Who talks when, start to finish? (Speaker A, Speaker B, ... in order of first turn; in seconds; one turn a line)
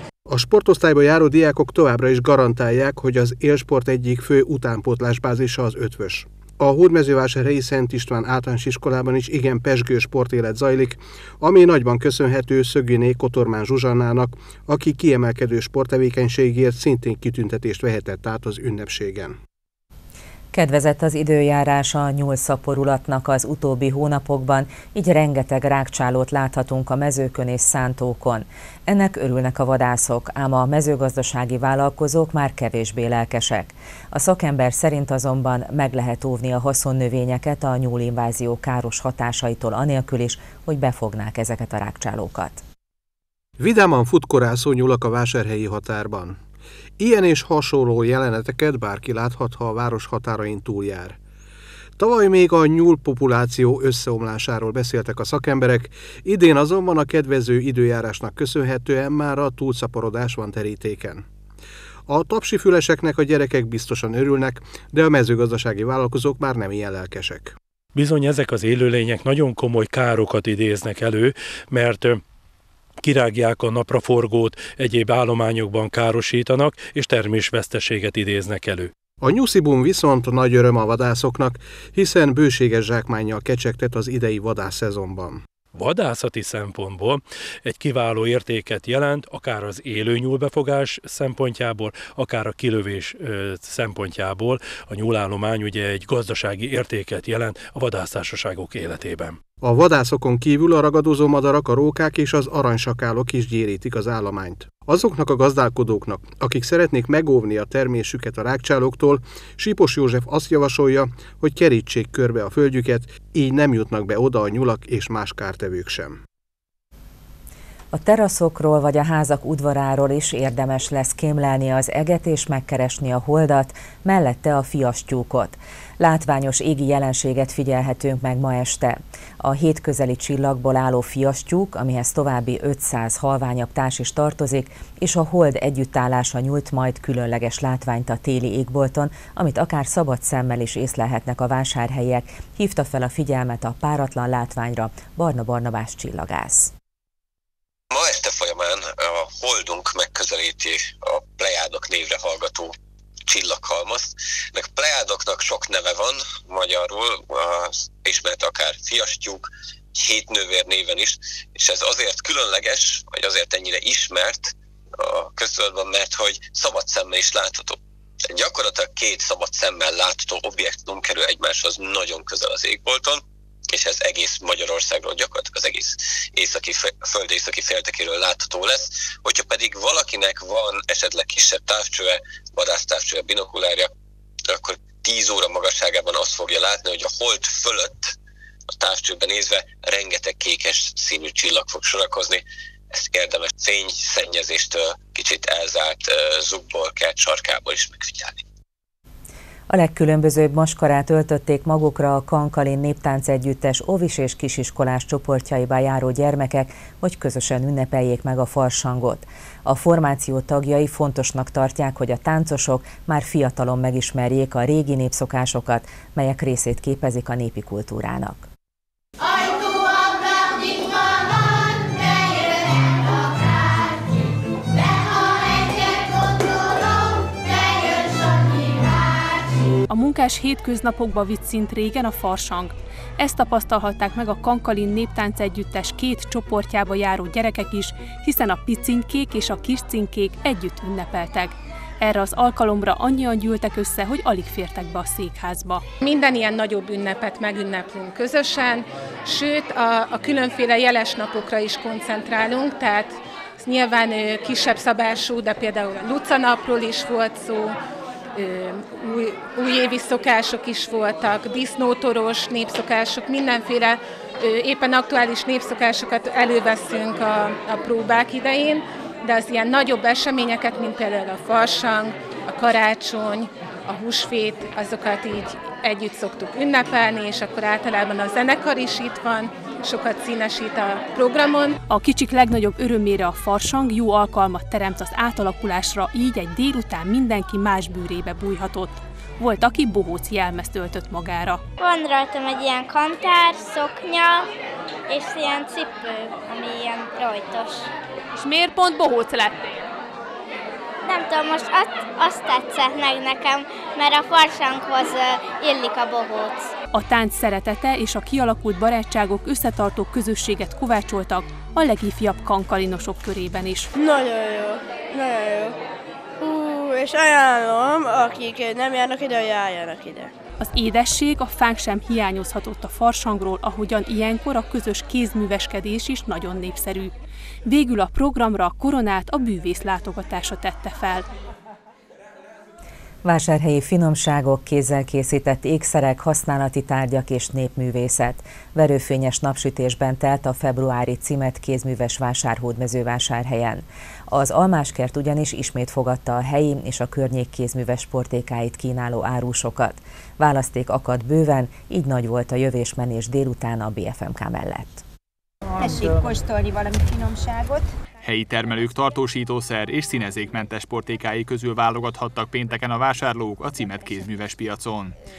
Speaker A: 0.3-19.4
Speaker B: 20.5-42.6
Speaker A: 43.6-46.4
Speaker A: 47.0-51.2
Speaker A: 52.0-61.2
Speaker A: 62.1-67.6
Speaker C: 68.0-72.2
Speaker C: 73.0-78.9
Speaker A: 79.2-85.4
Speaker C: 85.7-99.4
Speaker A: 99.6-116.2
Speaker B: 117.9-146.7
Speaker D: 147.9-152.7
Speaker D: 153.3-167.8
Speaker D: 168.3-183.9
Speaker D: 184.5-188.1
Speaker D: 188.7-192.4
Speaker D: 192.9-198.4
Speaker B: 199.7-218.5
Speaker E: 229.9-245.8
Speaker F: 246.0-257.8
Speaker F: 258.4-281.8
Speaker E: 281.9-291.6
Speaker G: 291.8-294.5
Speaker G: 295.1-297.9
Speaker E: 298.4-299.8
Speaker G: 301.1-306.7
Speaker E: 306.9-313.9
Speaker H: 314.0-315.7
Speaker H: 316.4-320.3
Speaker E: 320.6-327.1
Speaker E: 327.6-331.3
Speaker B: 333.2-355.1
Speaker I: 358.2-365.2